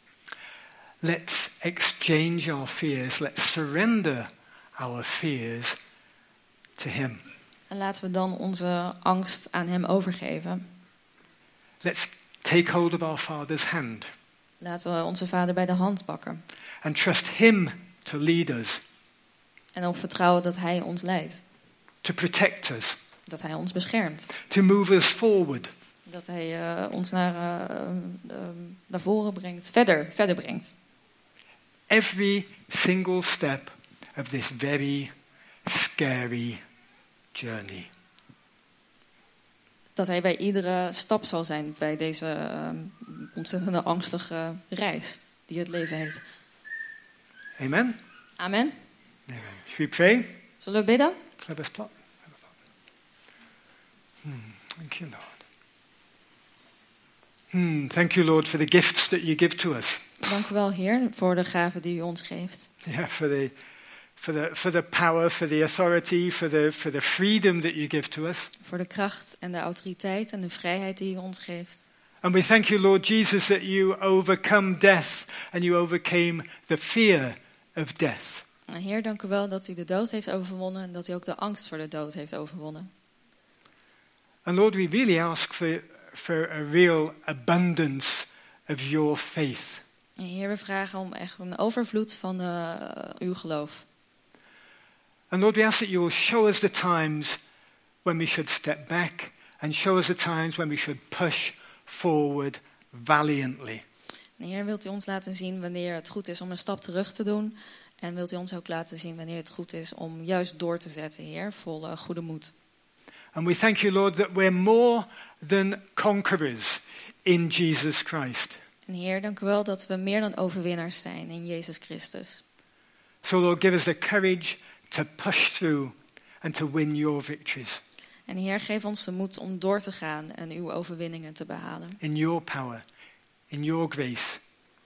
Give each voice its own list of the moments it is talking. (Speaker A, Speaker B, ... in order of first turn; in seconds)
Speaker A: 1.0-5.8, 6.8-7.2, 11.8-14.1, 16.8-18.8, 22.0-23.0, 24.4-25.7, 31.9-35.1, 35.6-36.6, 37.3-37.9, 47.6-48.0, 49.3-50.4, 51.4-51.9, 54.2-55.4, 57.5-60.1, 62.8-63.5, 64.2-68.5, 72.2-78.5, 84.5-89.8, 95.3-97.4, 98.0-103.8, 113.3-118.6, 123.2-127.8, 132.0-132.8, 133.5-134.4
Speaker B: 7.7-10.7, 14.6-16.4, 19.8-21.4, 23.3-24.3, 26.1-30.7, 40.0-46.2, 48.4-48.8, 50.6-51.2, 60.2-62.7, 68.6-71.9, 78.7-82.9, 90.2-93.9, 104.4-112.5, 118.9-122.4, 128.3-132.0